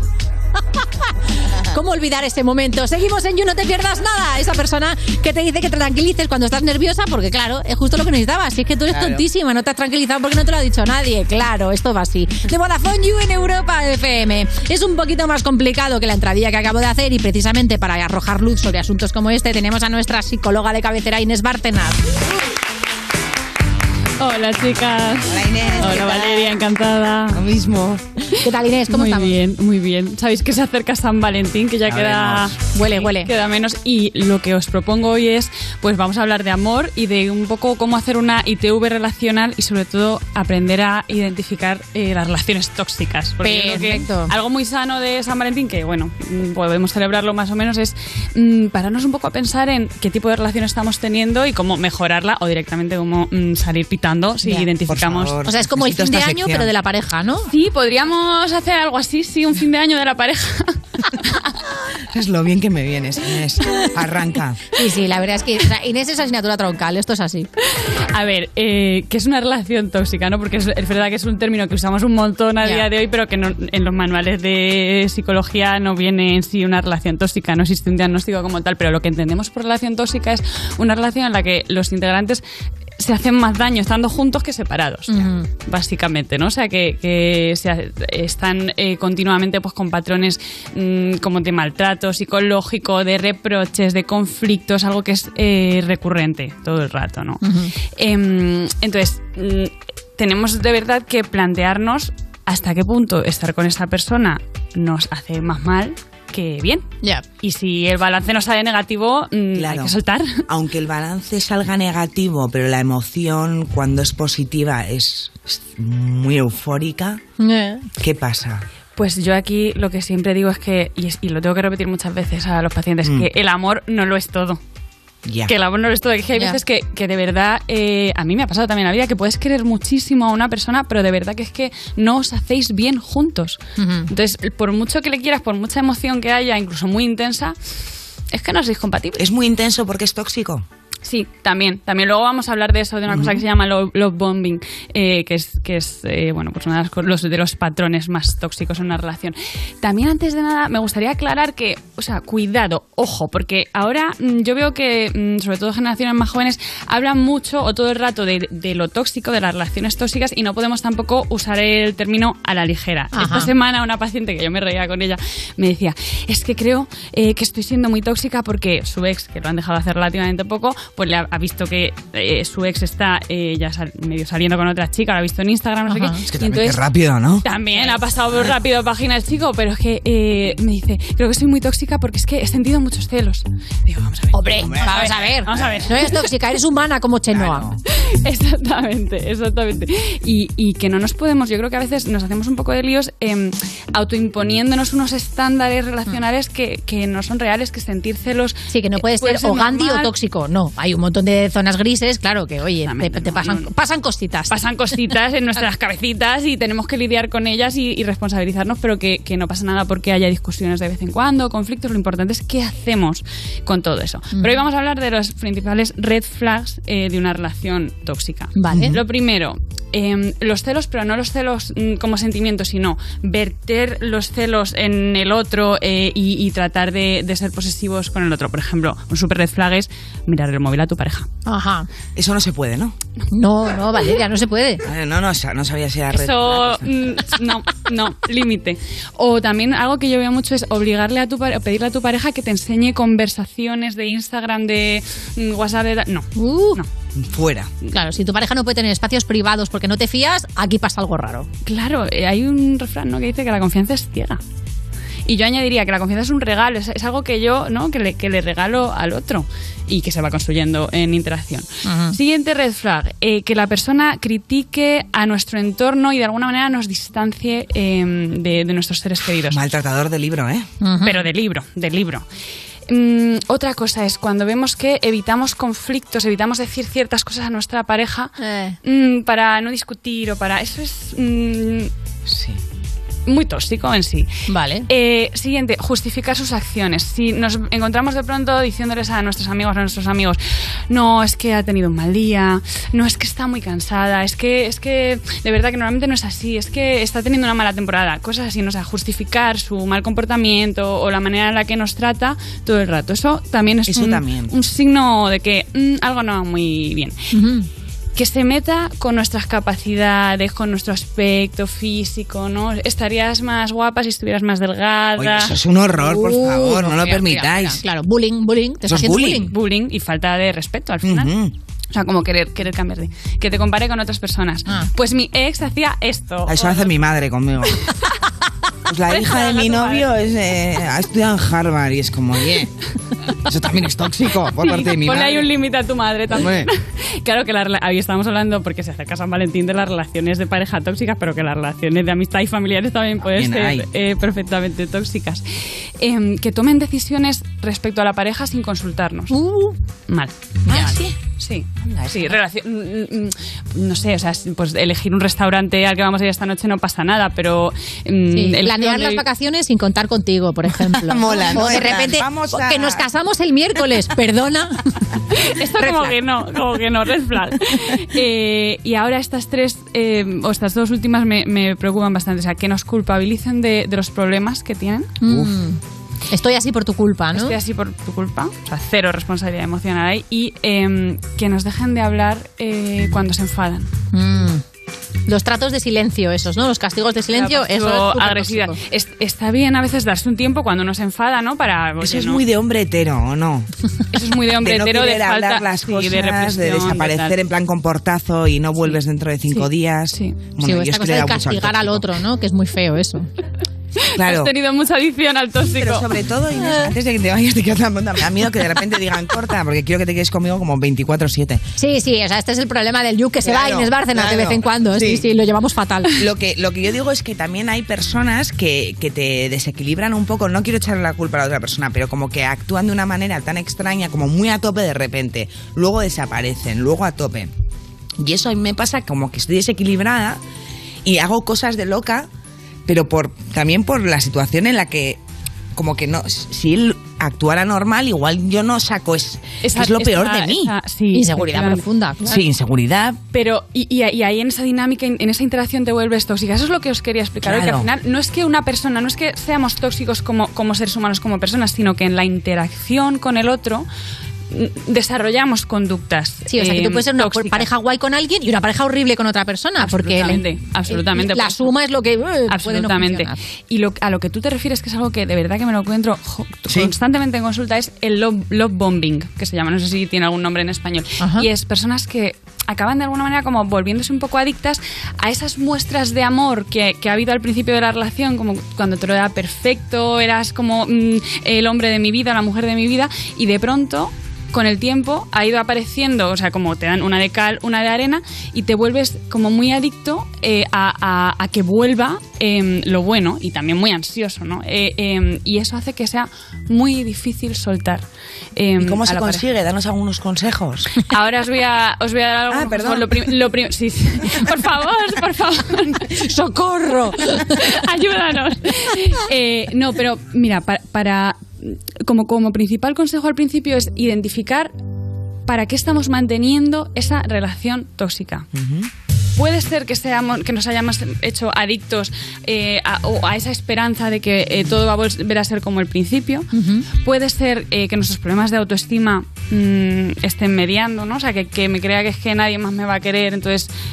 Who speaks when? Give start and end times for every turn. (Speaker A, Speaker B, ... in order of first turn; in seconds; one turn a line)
Speaker A: 1.7-22.0
Speaker B: 8.9-9.2
Speaker C: 24.2-27.4
Speaker B: 25.3-26.5
Speaker B: 27.3-28.0
Speaker A: 28.4-29.3
Speaker C: 28.9-55.3
Speaker B: 31.9-32.5
Speaker A: 32.7-33.3
Speaker A: 43.4-44.3
Speaker A: 54.4-54.7
Speaker B: 54.9-56.7
Speaker A: 55.4-57.5
Speaker C: 57.5-61.4
Speaker B: 62.1-64.6
Speaker A: 64.7-67.5
Speaker C: 67.8-82.4
Speaker C: 83.0-97.4
Speaker A: 85.1-85.5
Speaker A: 97.4-97.7
Speaker C: 98.0-106.8
Speaker C: 107.4-110.4
Speaker B: 109.5-109.9
Speaker B: 110.5-117.2
Speaker A: 117.4-117.9
Speaker B: 118.0-118.6
Speaker C: 119.0-124.6
Speaker B: 125.2-125.5
Speaker C: 125.5-137.6
Speaker A: 133.8-134.1
Speaker C: 138.3-139.2
Speaker B: 139.2-140.6
Speaker C: 141.0-176.8
Speaker B: 143.1-143.4
Speaker A: 163.1-163.5
Speaker A: 175.9-176.2
Speaker B: 176.3-177.4
Speaker C: 177.4-186.3
Speaker A: 184.3-187.7
Speaker B: 184.6-185.0
Speaker B: 187.3-187.8
Speaker C: 188.1-200.1
Speaker A: 198.7-204.6
Speaker C: 202.8-203.7
Speaker C: 204.5-231.3
Speaker A: 218.6-219.0
Speaker A: 231.4-231.9
Speaker B: 232.2-232.9
Speaker A: 233.3-234.8
Speaker B: 234.8-236.9
Speaker C: 236.1-246.9
Speaker A: 246.3-246.8
Speaker B: 247.1-247.7
Speaker A: 247.9-251.5
Speaker C: 251.6-254.4
Speaker C: 255.2-269.6
Speaker A: 261.8-262.1
Speaker B: 269.5-270.7
Speaker A: 270.8-271.3
Speaker C: 271.0-272.2
Speaker C: 272.9-278.3
Speaker A: 278.4-278.8
Speaker C: 278.8-281.9
Speaker B: 282.2-282.6
Speaker C: 283.3-284.3
Speaker A: 284.5-284.9
Speaker C: 284.9-307.1
Speaker B: 303.9-304.5
Speaker A: 307.3-307.7
Speaker C: 308.1-315.5
Speaker B: 315.2-317.8
Speaker A: 316.0-319.5
Speaker B: 318.9-319.5
Speaker C: 319.5-321.3
Speaker B: 321.0-321.5
Speaker C: 321.9-326.9
Speaker B: 326.5-327.8
Speaker B: 328.9-332.7
Speaker C: 329.1-330.1
Speaker B: 333.4-335.5
Speaker C: 334.6-345.4
Speaker B: 336.3-336.7
Speaker B: 343.3-343.8
Speaker C: 346.0-349.3
Speaker A: 349.3-349.8
Speaker C: 350.1-359.2
Speaker B: 350.7-351.0
Speaker A: 358.3-364.8
Speaker B: 360.9-363.0
Speaker C: 365.4-375.1
Speaker A: 365.8-366.1
Speaker A: 375.2-375.8
Speaker B: 375.3-375.5
Speaker A: 376.3-377.5
Speaker C: 377.3-383.9
Speaker A: 384.1-384.6
Speaker A: 385.3-388.8
Speaker C: 387.3-392.4
Speaker B: 392.0-393.7
Speaker C: 394.1-397.3
Speaker B: 394.5-402.1
Speaker C: 399.5-400.4
Speaker A: 400.6-403.3
Speaker B: 404.1-404.5
Speaker C: 404.2-406.1
Speaker B: 405.8-411.6
Speaker A: 406.6-406.9
Speaker A: 411.8-416.1
Speaker B: 413.4-415.2
Speaker B: 416.2-427.5
Speaker B: 428.2-430.4
Speaker B: 431.0-432.3
Speaker B: 432.9-435.2
Speaker B: 435.7-440.7
Speaker C: 439.6-441.8
Speaker A: 441.1-442.4
Speaker B: 442.2-443.2
Speaker C: 443.3-453.9
Speaker B: 447.4-447.9
Speaker C: 454.5-457.6
Speaker A: 456.5-463.4
Speaker C: 459.8-461.7
Speaker C: 462.5-499.4
Speaker A: 471.2-471.4
Speaker B: 498.8-501.0
Speaker C: 501.0-506.1
Speaker B: 502.5-503.2
Speaker A: 506.1-507.6
Speaker C: 507.6-514.7
Speaker C: 515.5-518.5
Speaker B: 518.5-518.9
Speaker C: 519.4-533.7
Speaker A: 526.5-526.9